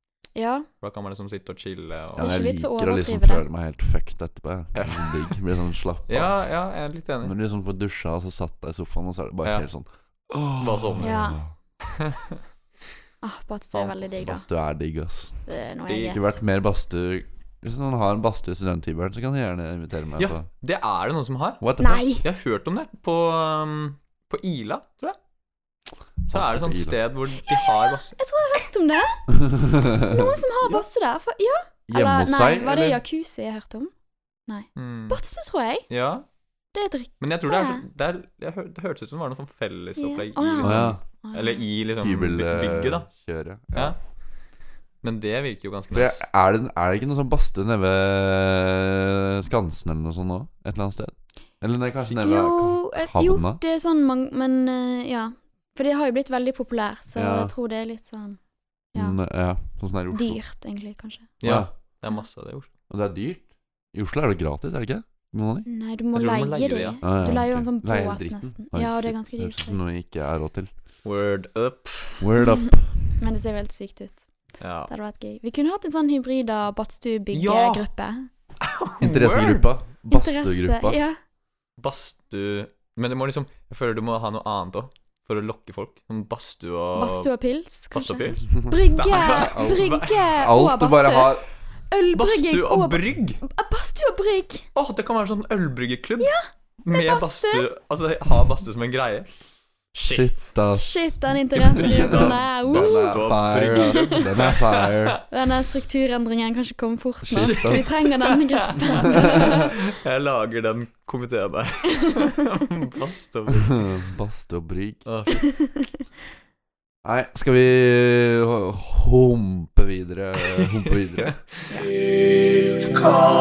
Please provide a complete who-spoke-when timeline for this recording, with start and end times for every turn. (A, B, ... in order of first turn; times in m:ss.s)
0:00.4-0:00.7 A
0:00.8-0:02.3 B
0:02.2-0:03.4 A
0:02.2-0:06.4 C
0:04.7-0:05.4 B
0:06.1-0:07.4 B
0:07.2-0:11.5 C
0:10.6-0:11.1 B
0:11.0-0:11.4 A
0:11.9-0:12.2 B
0:13.2-0:14.4 A
0:13.7-0:14.0 B
0:14.2-0:15.4 C
0:15.4-0:16.4 A
0:15.9-0:16.2 B
0:16.0-0:20.5 C
0:20.2-0:21.7 B
0:21.6-0:22.1 C
0:21.8-0:22.2 A
0:22.2-0:25.2 B
0:26.3-0:28.6 B
0:26.3-0:27.0 C
0:27.4-0:29.4 A
0:29.3-0:30.3 C
0:29.9-0:33.9 A
0:31.9-0:33.0 C
0:34.4-0:35.9 A
0:34.8-0:35.2 B
0:35.9-0:36.2 B
0:36.7-0:37.8 A
0:37.2-0:43.1 B
0:40.0-0:41.6 A
0:40.6-0:41.0 C
0:42.0-0:43.9 C
0:45.0-0:46.2 B
0:45.9-0:53.6 C
0:52.2-0:58.4 A
0:57.2-0:57.5 C
0:58.9-0:59.2 A
0:58.9-1:00.4 C
1:00.1-1:01.3 A
1:01.4-1:02.7 B
1:01.4-1:01.7 C
1:02.9-1:05.7 C
1:05.7-1:09.8 A
1:06.2-1:07.6 B
1:07.0-1:10.7 C
1:11.0-1:12.3 B
1:12.2-1:13.0 C
1:13.2-1:14.3 A
1:14.6-1:14.9 B
1:14.9-1:18.3 A
1:17.3-1:17.8 B
1:18.6-1:19.7 B
1:19.0-1:21.0 C
1:20.1-1:21.2 A
1:21.8-1:27.3 B
1:26.9-1:31.3 A
1:27.9-1:30.3 B
1:29.3-1:31.4 C
1:31.9-1:34.7 A
1:32.1-1:33.4 B
1:34.8-1:36.3 B
1:36.2-1:37.7 A
1:36.8-1:39.3 B
1:39.9-1:40.5 B
1:40.1-1:45.2 C
1:40.8-1:44.3 A
1:41.7-1:45.2 B
1:45.3-1:49.7 A
1:47.2-1:47.9 C
1:47.3-1:53.9 B
1:49.1-1:49.6 C
1:53.7-1:55.1 C
1:55.1-1:55.5 B
1:55.6-1:56.0 A
1:57.0-2:01.4 C
2:00.6-2:01.8 B